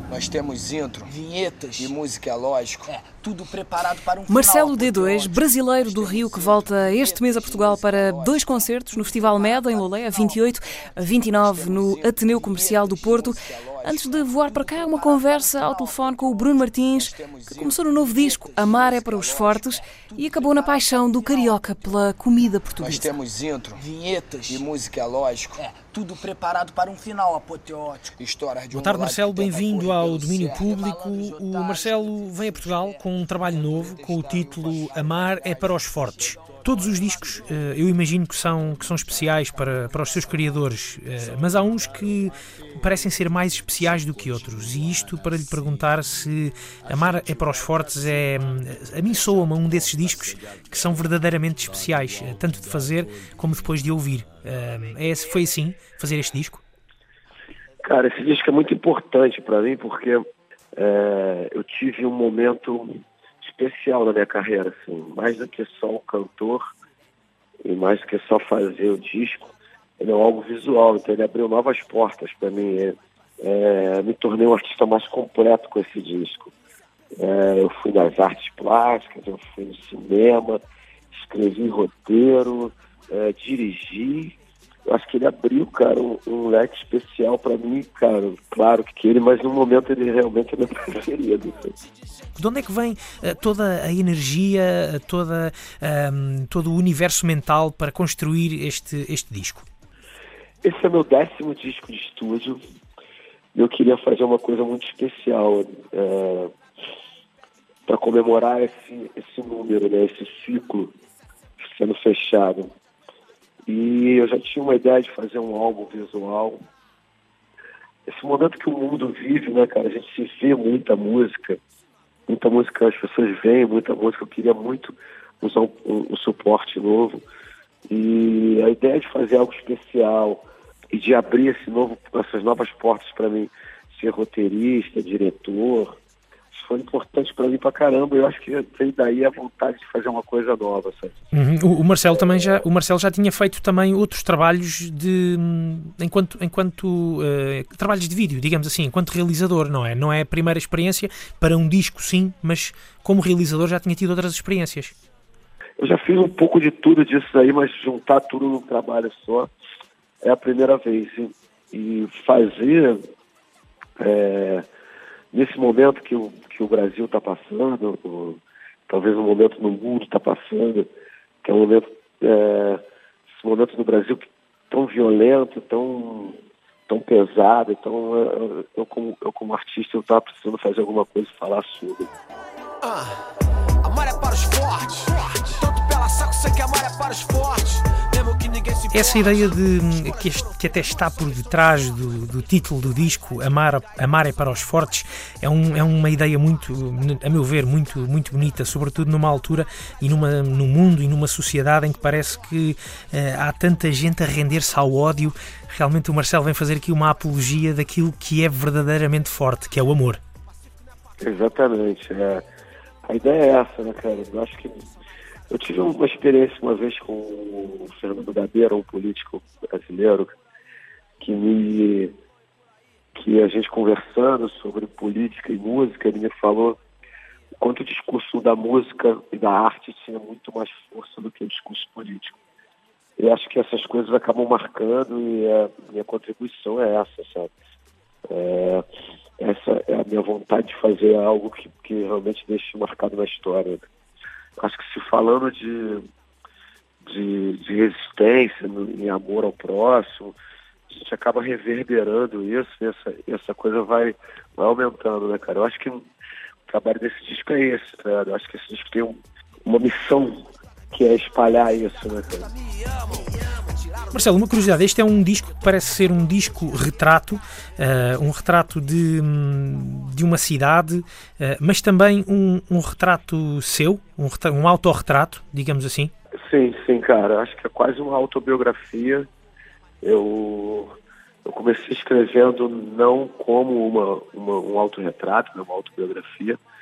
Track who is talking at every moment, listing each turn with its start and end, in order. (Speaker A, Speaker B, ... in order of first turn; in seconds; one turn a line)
Speaker A: 0.1-21.7
Speaker B: 4.3-23.1
Speaker A: 22.8-32.0
Speaker C: 28.7-56.6
Speaker A: 32.5-32.9
Speaker D: 57.8-60.2
Speaker D: 60.8-66.7
Speaker D: 67.6-76.5
Speaker D: 77.2-80.6
Speaker D: 81.1-84.3
Speaker D: 84.9-91.8
Speaker C: 92.4-99.7
Speaker D: 100.6-102.6
Speaker D: 103.5-106.5
Speaker D: 107.9-110.9
Speaker D: 111.6-112.7
Speaker D: 113.7-116.6
Speaker D: 118.1-121.6
Speaker D: 122.3-127.2
Speaker D: 127.9-136.0
Speaker D: 136.5-141.2
Speaker C: 141.3-154.9
Speaker D: 142.1-142.6
Speaker D: 155.8-159.5
Speaker D: 160.2-163.1
Speaker D: 164.0-164.7
Speaker D: 165.3-170.9
Speaker D: 171.4-172.8
Speaker D: 173.4-182.1
Speaker E: 182.8-183.1
Speaker E: 183.8-190.6
Speaker C: 188.9-210.2
Speaker D: 211.2-212.4
Speaker D: 213.1-214.9
Speaker D: 215.5-220.3
Speaker D: 221.2-222.2
Speaker D: 223.2-226.8
Speaker D: 227.6-232.4
Speaker D: 233.2-237.5
Speaker D: 238.3-238.8
Speaker D: 239.4-243.9
Speaker D: 244.6-246.1
Speaker D: 247.1-250.3
Speaker D: 250.9-256.1
Speaker D: 256.7-262.5
Speaker E: 262.6-264.4
Speaker C: 264.1-276.1
Speaker D: 276.4-279.3
Speaker D: 280.0-286.6